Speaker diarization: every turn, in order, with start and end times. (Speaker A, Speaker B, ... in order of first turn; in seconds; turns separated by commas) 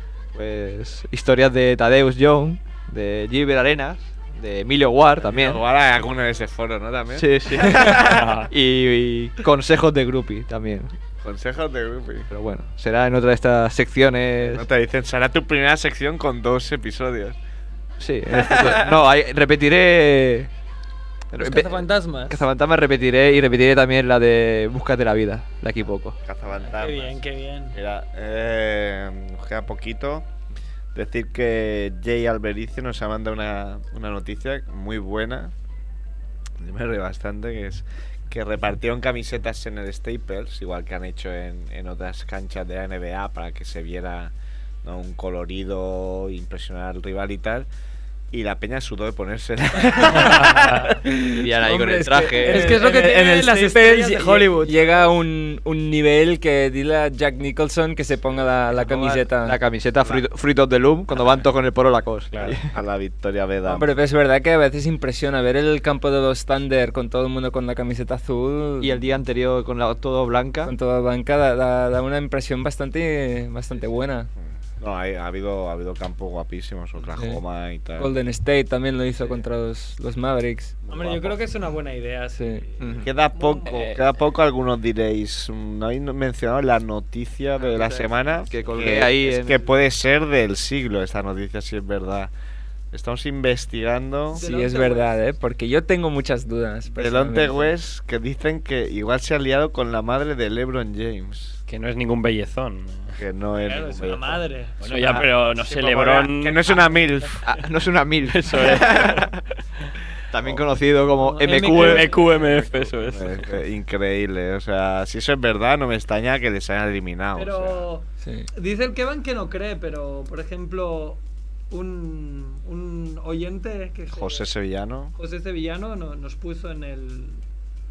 Speaker A: 0.3-5.6, Speaker B: 5.2-8.2, Speaker A: 7.1-10.9, Speaker C: 8.0-8.5, Speaker B: 11.2-12.3, Speaker A: 12.3-14.7, Speaker B: 14.4-17.4, Speaker A: 18.0-20.5, Speaker B: 18.3-19.0, Speaker A: 21.3-26.2, Speaker D: 21.4-22.4, Speaker B: 26.2-30.3, Speaker D: 26.6-27.8, Speaker B: 30.9-35.5, Speaker B: 36.6-47.7, Speaker B: 48.3-50.9, Speaker C: 50.2-50.9, Speaker E: 51.0-59.6, Speaker A: 51.4-52.7, Speaker D: 52.4-54.8, Speaker A: 58.8-62.7, Speaker B: 62.4-63.9, Speaker E: 63.6-69.0, Speaker A: 68.8-70.7, Speaker E: 70.7-74.3, Speaker B: 74.8-78.1, Speaker E: 77.2-77.4, Speaker E: 78.0-80.8, Speaker B: 80.8-81.4, Speaker D: 80.9-83.9, Speaker E: 82.3-82.6, Speaker A: 82.8-83.1, Speaker B: 83.0-92.3, Speaker C: 83.7-84.0, Speaker A: 87.6-89.7, Speaker B: 92.9-94.4, Speaker E: 94.3-97.7, Speaker D: 94.3-95.2, Speaker B: 97.0-101.6, Speaker C: 101.7-103.2, Speaker B: 103.2-107.4, Speaker D: 103.5-105.3, Speaker C: 104.8-106.8, Speaker A: 107.4-109.3, Speaker C: 108.2-109.4, Speaker A: 110.3-112.1, Speaker D: 111.1-112.2, Speaker C: 111.7-113.6, Speaker B: 111.7-117.9, Speaker D: 117.3-124.5, Speaker E: 118.2-118.5, Speaker B: 124.1-125.1, Speaker D: 125.2-127.4